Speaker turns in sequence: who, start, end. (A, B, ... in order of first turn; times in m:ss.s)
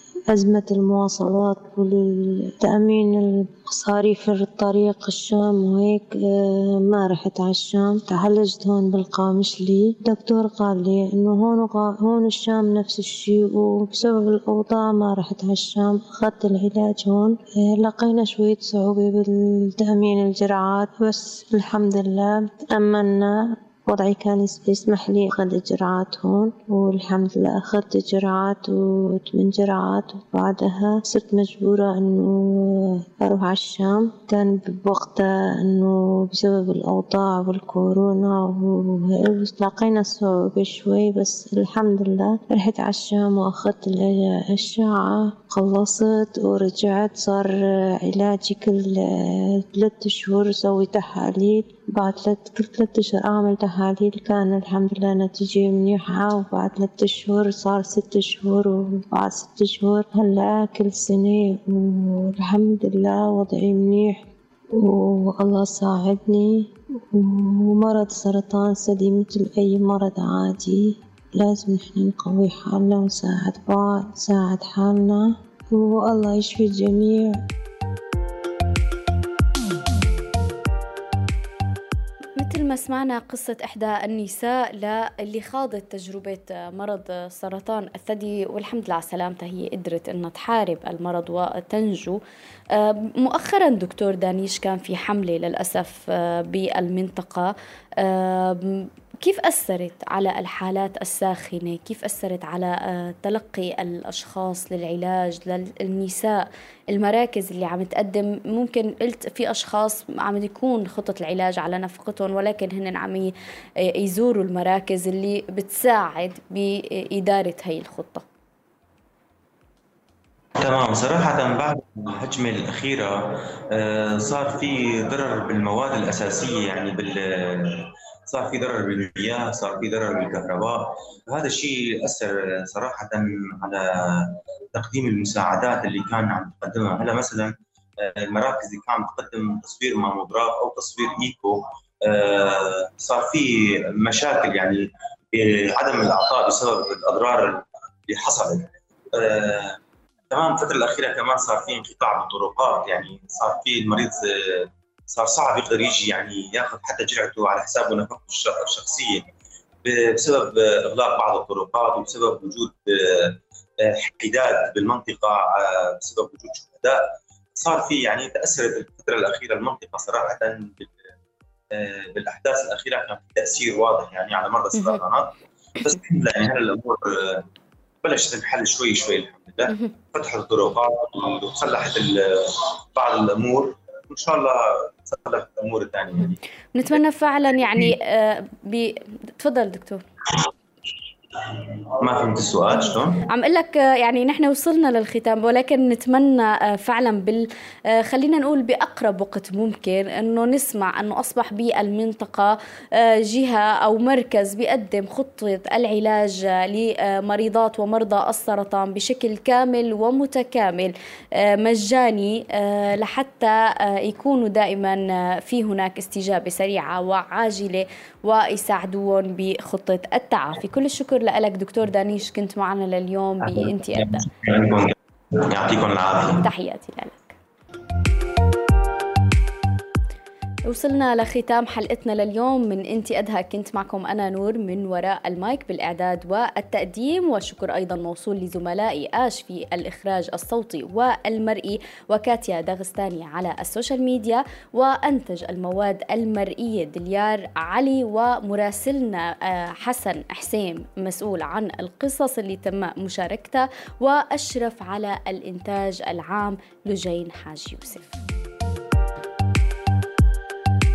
0:00.3-1:17.4 A
1:22.4-1:32.2 B
1:32.7-1:53.3 B
1:53.9-1:58.2 B
2:00.6-2:29.8 C
2:30.3-2:39.3 C
2:39.8-2:47.0 C
2:47.5-2:51.0 C
2:51.7-2:57.4 C
2:54.8-2:55.0 B
2:58.0-3:06.4 C
3:06.7-3:10.0 B
3:11.4-3:13.2 C
3:13.2-3:44.3 B
3:43.4-3:46.5 C
3:46.3-3:47.3 B
3:50.7-4:18.2 B